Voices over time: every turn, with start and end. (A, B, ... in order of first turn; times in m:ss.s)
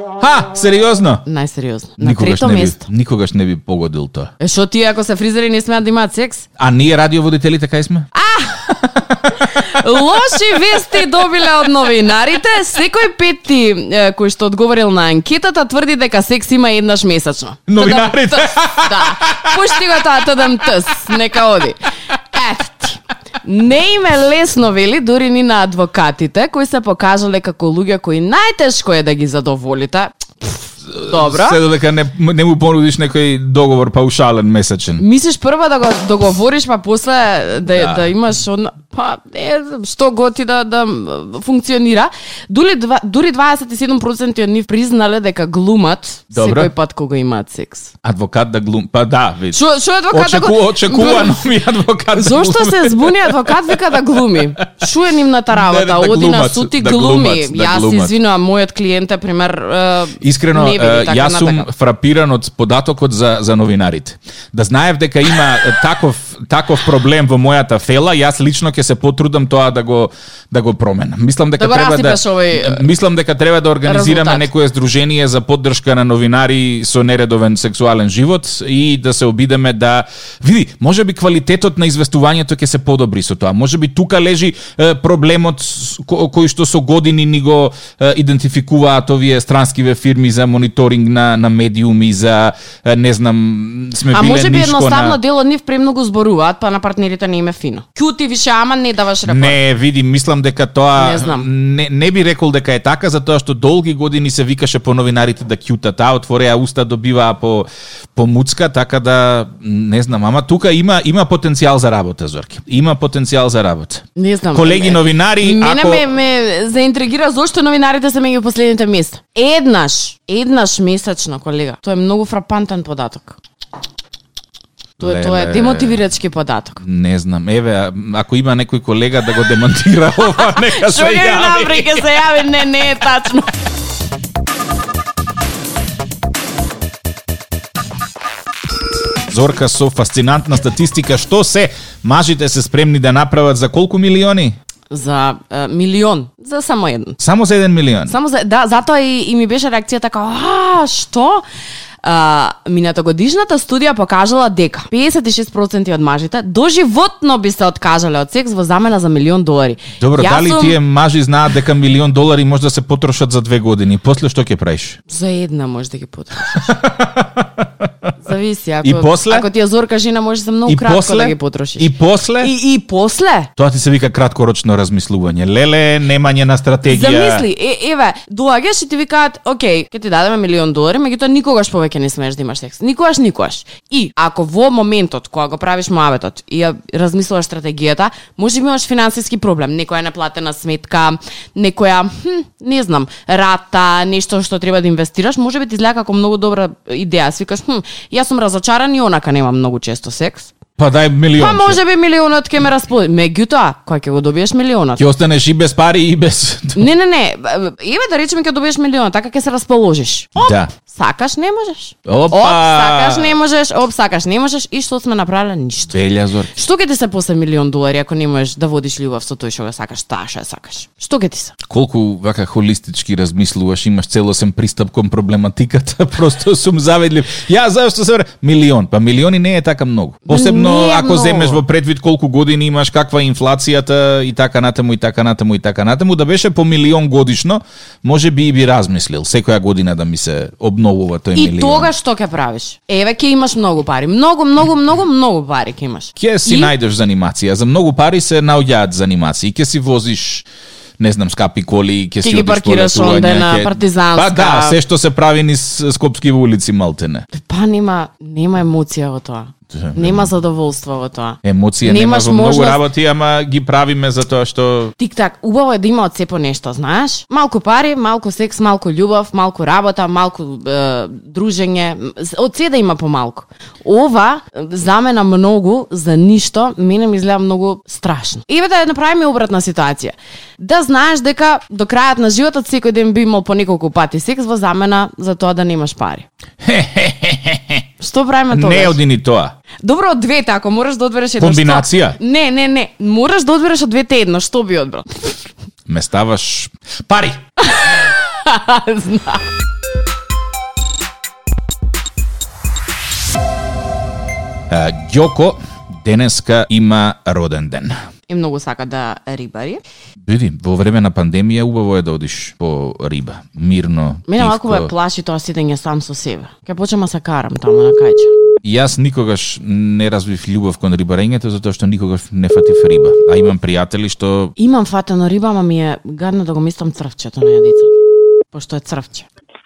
0:00.2-0:01.2 A
0:01.2-0:02.8 B
0:02.0-0:04.3 A
0:04.4-0:06.5 B
0:06.6-0:08.1 A
0:08.1-0:31.6 B
0:09.1-0:10.2 A
0:17.7-0:20.7 A
0:30.9-0:35.0 A
0:35.0-0:47.9 B
0:37.7-0:38.1 A
0:46.3-0:46.7 A
0:48.0-0:54.9 A
0:49.5-0:51.4 B
0:52.1-1:01.7 B
0:55.5-0:58.1 A
1:00.2-1:35.2 A
1:11.6-1:12.8 B
1:13.8-1:14.5 B
1:34.1-1:39.6 B
1:39.2-1:56.1 A
1:41.0-1:41.5 B
1:54.2-2:03.4 B
2:05.0-2:06.0 A
2:05.0-2:06.8 B
2:06.8-2:12.1 A
2:10.3-2:13.5 B
2:19.3-2:24.6 A
2:24.9-2:27.2 B
2:27.2-2:28.1 A
2:28.1-2:31.4 B
2:32.0-2:40.8 B
2:40.0-2:45.0 A
2:45.1-2:46.8 B
2:46.4-2:47.9 A
2:48.2-2:53.5 B
2:48.8-2:49.5 A
2:50.6-2:52.5 A
2:53.6-2:57.4 A
2:56.9-3:20.5 B
3:20.8-3:21.8 A
3:21.4-3:25.0 B
3:25.0-3:26.8 A
3:26.7-3:36.0 B
3:30.4-3:30.7 A
3:32.0-3:33.3 A
3:35.9-3:36.6 A
3:36.5-3:41.5 B
3:41.7-4:01.9 A
3:50.3-3:51.6 B
4:01.3-4:06.7 B
4:06.2-4:10.5 A
4:11.0-4:17.2 A
4:12.2-4:14.8 B
4:17.3-4:22.8 B
4:19.7-4:20.3 A
4:21.4-4:24.9 A
4:25.0-4:46.3 B
4:46.6-4:47.8 A
4:48.0-4:49.0 B
4:48.5-4:49.5 A
4:49.8-4:55.3 B
4:51.4-4:52.2 A
4:55.9-4:57.4 A
4:57.6-4:59.4 B
5:04.7-5:08.0 A
5:08.3-5:09.8 B
5:10.2-5:14.9 A
5:14.3-5:18.3 B
5:18.6-5:24.5 A
5:24.6-5:27.9 B
5:28.5-5:29.3 B